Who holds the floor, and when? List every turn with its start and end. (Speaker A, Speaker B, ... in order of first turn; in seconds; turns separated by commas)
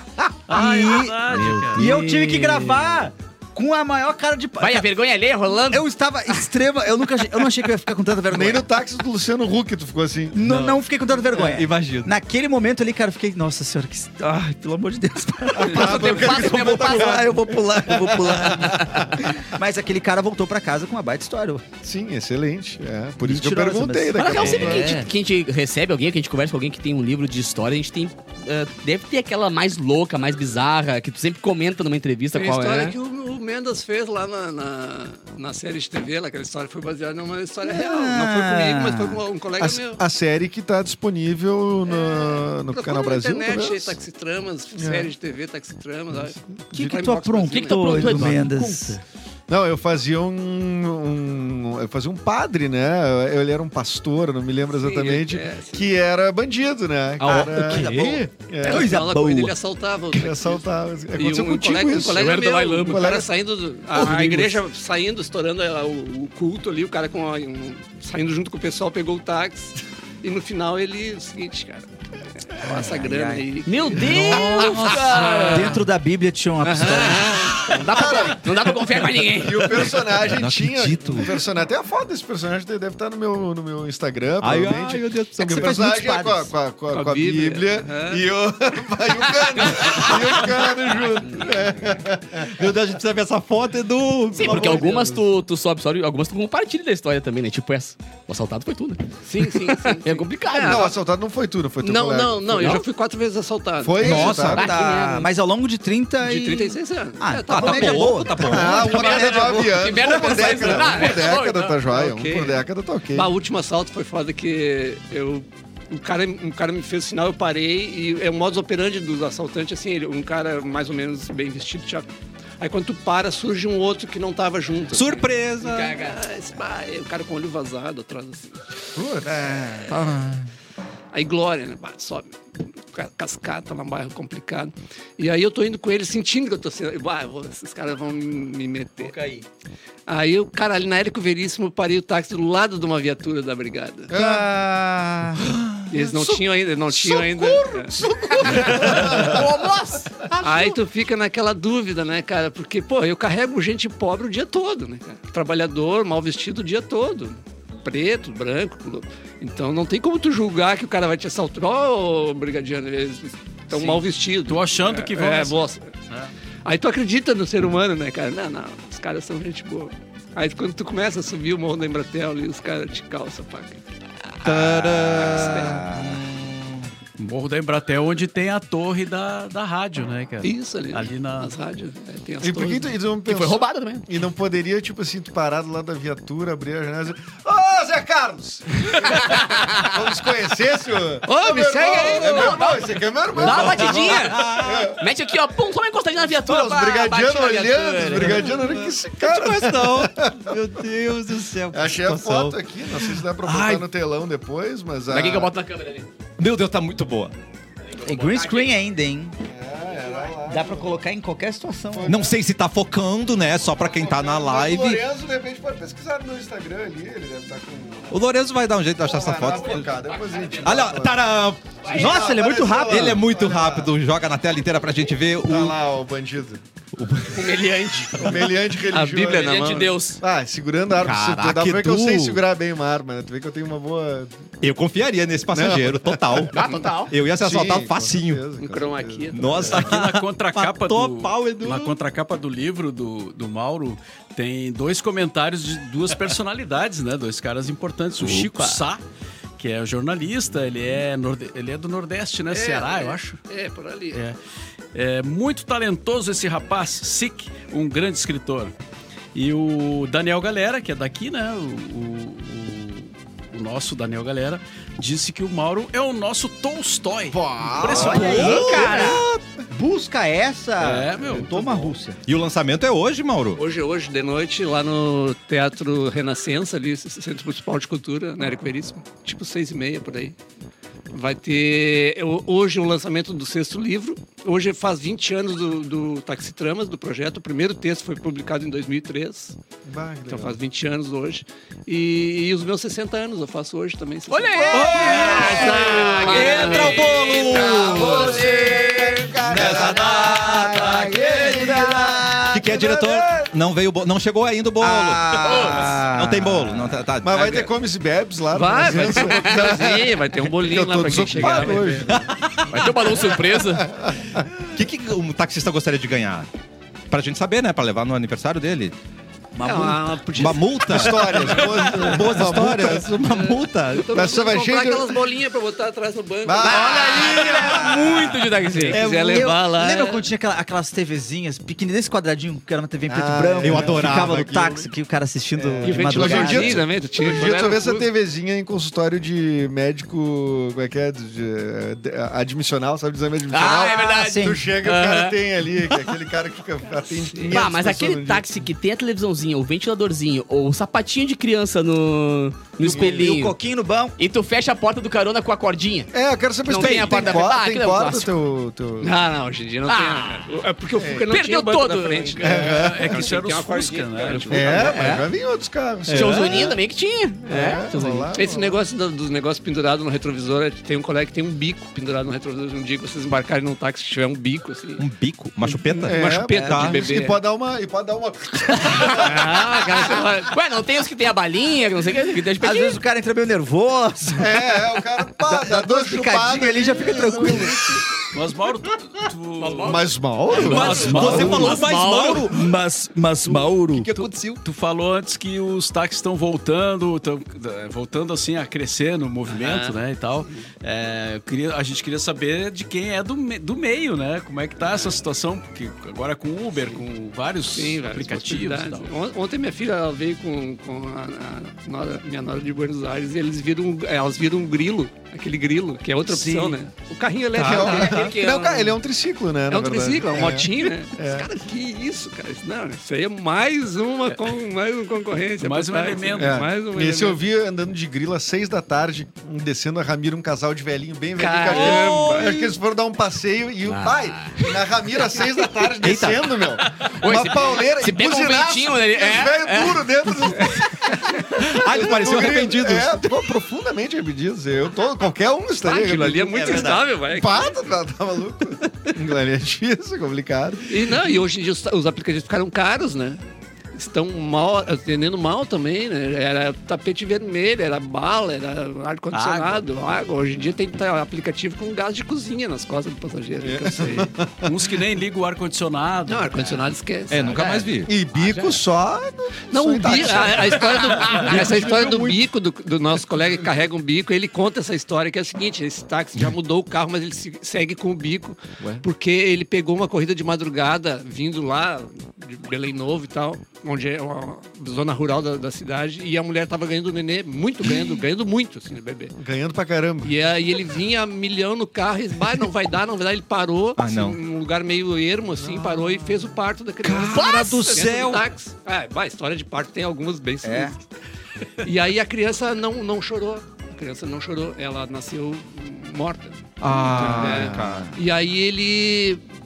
Speaker A: 0.5-1.9, Speaker B: 0.5-4.9, Speaker C: 1.4-2.9, Speaker C: 4.6-5.8, Speaker B: 5.7-8.7, Speaker D: 8.3-10.4, Speaker B: 10.3-21.6, Speaker E: 10.5-10.8, Speaker E: 11.3-12.1, Speaker D: 15.6-19.2, Speaker C: 15.7-17.3, Speaker D: 21.8-25.0, Speaker B: 23.2-25.1, Speaker C: 24.1-33.0, Speaker E: 24.8-25.0, Speaker F: 32.3-40.0, Speaker B: 37.6-39.2, Speaker D: 39.6-44.0, Speaker F: 41.9-48.5, Speaker D: 44.8-45.1, Speaker B: 46.7-49.0, Speaker C: 47.5-49.0, Speaker D: 49.5-59.0, Speaker F: 54.7-55.9, Speaker B: 57.2-59.6, Speaker E: 57.3-58.0, Speaker F: 58.6-71.9, Speaker D: 60.1-63.3, Speaker C: 62.1-63.1, Speaker B: 64.0-64.5, Speaker F: 72.5-75.7, Speaker B: 72.6-73.4, Speaker C: 73.7-75.8, Speaker E: 74.0-75.8, Speaker B: 75.5-77.6, Speaker F: 76.7-77.7, Speaker C: 77.6-79.7, Speaker D: 77.7-78.7, Speaker D: 79.2-92.6, Speaker E: 80.3-81.4, Speaker E: 84.4-85.8, Speaker B: 85.4-86.5, Speaker F: 86.9-88.2, Speaker F: 89.6-90.2, Speaker E: 92.4-95.3, Speaker C: 94.4-100.9, Speaker D: 94.5-94.9, Speaker F: 99.2-101.0, Speaker D: 100.6-102.8, Speaker F: 101.8-104.5, Speaker D: 103.8-104.7, Speaker B: 104.0-109.7, Speaker E: 104.0-104.7, Speaker C: 104.5-105.3, Speaker F: 106.2-108.2, Speaker E: 107.5-109.4, Speaker D: 108.4-113.3, Speaker C: 108.7-111.8, Speaker F: 109.9-111.4, Speaker F: 111.9-122.1, Speaker F: 122.6-128.6, Speaker E: 124.9-126.0, Speaker C: 125.6-126.2, Speaker D: 129.0-129.8, Speaker E: 129.9-130.4, Speaker F: 131.1-132.4, Speaker F: 132.9-139.2, Speaker C: 139.0-139.4, Speaker F: 140.1-144.1, Speaker D: 144.1-144.5, Speaker B: 144.1-145.5, Speaker E: 145.5-145.8, Speaker F: 145.9-149.2, Speaker D: 147.0-149.4, Speaker C: 148.3-150.1, Speaker F: 150.4-165.9, Speaker A: 163.7-166.3, Speaker F: 166.7-173.8, Speaker E: 174.4-176.9, Speaker B: 174.5-176.2, Speaker F: 175.2-175.8, Speaker A: 177.2-181.6, Speaker F: 180.4-182.9, Speaker D: 182.4-195.0, Speaker C: 183.3-184.1, Speaker F: 191.3-192.6, Speaker C: 191.9-198.6, Speaker E: 193.4-194.9, Speaker D: 196.3-200.6, Speaker E: 198.2-203.9, Speaker D: 201.7-205.5, Speaker C: 205.1-206.1, Speaker E: 206.4-207.3, Speaker B: 208.0-209.4, Speaker C: 208.1-208.7, Speaker D: 209.4-210.9, Speaker B: 210.5-212.2, Speaker D: 211.9-212.4, Speaker E: 212.1-215.0, Speaker D: 213.8-218.2, Speaker E: 218.1-219.9, Speaker D: 219.0-221.3, Speaker C: 219.7-220.7, Speaker E: 220.6-225.8, Speaker D: 221.8-224.0, Speaker B: 221.9-223.2, Speaker D: 225.4-226.6, Speaker E: 227.0-227.5, Speaker C: 227.3-228.3, Speaker D: 228.2-234.4, Speaker F: 228.9-229.8, Speaker C: 228.9-230.2, Speaker B: 231.1-232.1, Speaker E: 231.1-232.4, Speaker E: 234.6-236.6, Speaker D: 235.5-236.8, Speaker C: 236.5-237.1, Speaker E: 237.1-238.4, Speaker D: 237.4-239.9, Speaker F: 238.6-239.9, Speaker E: 239.3-241.9, Speaker A: 239.7-249.0, Speaker C: 248.2-248.8, Speaker A: 249.6-253.4, Speaker F: 252.5-254.2, Speaker A: 254.9-258.8, Speaker A: 259.3-268.8, Speaker D: 267.3-268.4, Speaker B: 267.9-272.2, Speaker E: 268.1-269.3, Speaker C: 268.7-269.2, Speaker A: 270.8-271.9, Speaker E: 272.3-273.6, Speaker F: 273.6-280.4, Speaker F: 281.1-289.6, Speaker D: 289.9-290.6, Speaker F: 290.3-298.4, Speaker C: 294.3-299.3, Speaker E: 294.7-298.5, Speaker D: 294.9-296.3, Speaker D: 297.5-303.5, Speaker B: 298.1-302.8, Speaker E: 299.5-301.7, Speaker E: 302.5-307.7, Speaker B: 304.8-307.0, Speaker C: 305.4-305.9, Speaker D: 307.2-312.4, Speaker F: 308.5-312.1, Speaker E: 311.6-313.4, Speaker C: 312.7-313.9, Speaker D: 313.6-314.4, Speaker E: 314.6-316.5, Speaker E: 317.1-318.9, Speaker B: 319.5-320.4, Speaker F: 319.6-322.1, Speaker E: 320.3-324.1, Speaker D: 320.9-323.2, Speaker F: 323.2-327.5, Speaker D: 324.1-325.2, Speaker D: 326.4-328.2, Speaker C: 326.7-329.0, Speaker B: 326.7-328.2, Speaker F: 328.7-330.2, Speaker B: 328.9-336.8, Speaker E: 328.9-329.5, Speaker D: 333.1-334.9, Speaker E: 333.6-334.6, Speaker D: 335.6-348.5, Speaker F: 335.8-338.1, Speaker C: 343.5-345.4, Speaker B: 343.6-344.8, Speaker F: 347.0-347.6, Speaker C: 347.5-353.6, Speaker B: 352.8-354.1, Speaker D: 352.8-353.3, Speaker C: 354.2-356.1, Speaker D: 356.1-359.1, Speaker C: 356.6-358.3, Speaker F: 359.0-365.2, Speaker C: 359.9-360.4, Speaker D: 361.0-361.3, Speaker C: 361.3-362.4, Speaker D: 362.4-363.2, Speaker A: 362.4-364.8, Speaker C: 364.5-365.3, Speaker D: 364.5-366.8, Speaker E: 366.1-366.4, Speaker C: 366.1-368.3, Speaker D: 367.5-368.8, Speaker F: 368.4-375.1, Speaker E: 375.0-377.1, Speaker F: 376.0-377.4, Speaker D: 376.1-379.7, Speaker C: 379.1-383.0, Speaker F: 379.1-380.4, Speaker B: 382.6-384.8, Speaker D: 384.4-388.0, Speaker B: 385.4-388.1, Speaker A: 388.3-391.7, Speaker C: 389.6-390.0, Speaker D: 389.8-391.8, Speaker C: 390.5-392.5, Speaker E: 390.6-392.7, Speaker B: 391.1-391.6, Speaker B: 392.4-394.1, Speaker E: 393.9-394.6, Speaker A: 394.6-409.1, Speaker F: 399.5-399.9, Speaker F: 404.8-405.2, Speaker F: 407.7-418.3, Speaker B: 416.3-416.8, Speaker E: 417.6-417.9, Speaker D: 417.6-421.5, Speaker C: 417.7-418.9, Speaker F: 419.7-427.4, Speaker A: 425.6-426.6, Speaker D: 426.4-450.9, Speaker F: 431.4-432.6, Speaker E: 431.7-432.7, Speaker C: 433.9-434.7, Speaker E: 436.0-436.5, Speaker C: 437.1-440.1, Speaker E: 441.6-443.3, Speaker F: 445.8-447.8, Speaker E: 446.5-447.1, Speaker F: 450.9-453.4, Speaker F: 453.9-464.3, Speaker A: 459.3-459.8, Speaker D: 463.6-464.7, Speaker A: 464.6-466.9, Speaker F: 466.3-467.9, Speaker E: 467.3-468.1, Speaker D: 468.1-472.3, Speaker F: 468.4-468.7, Speaker F: 469.7-489.3, Speaker A: 471.2-472.2, Speaker D: 489.4-490.3, Speaker F: 490.2-501.0, Speaker E: 494.0-494.4, Speaker D: 495.6-496.3, Speaker E: 497.0-498.5, Speaker B: 500.6-500.9, Speaker F: 501.8-509.4, Speaker E: 506.8-508.1, Speaker B: 507.0-508.2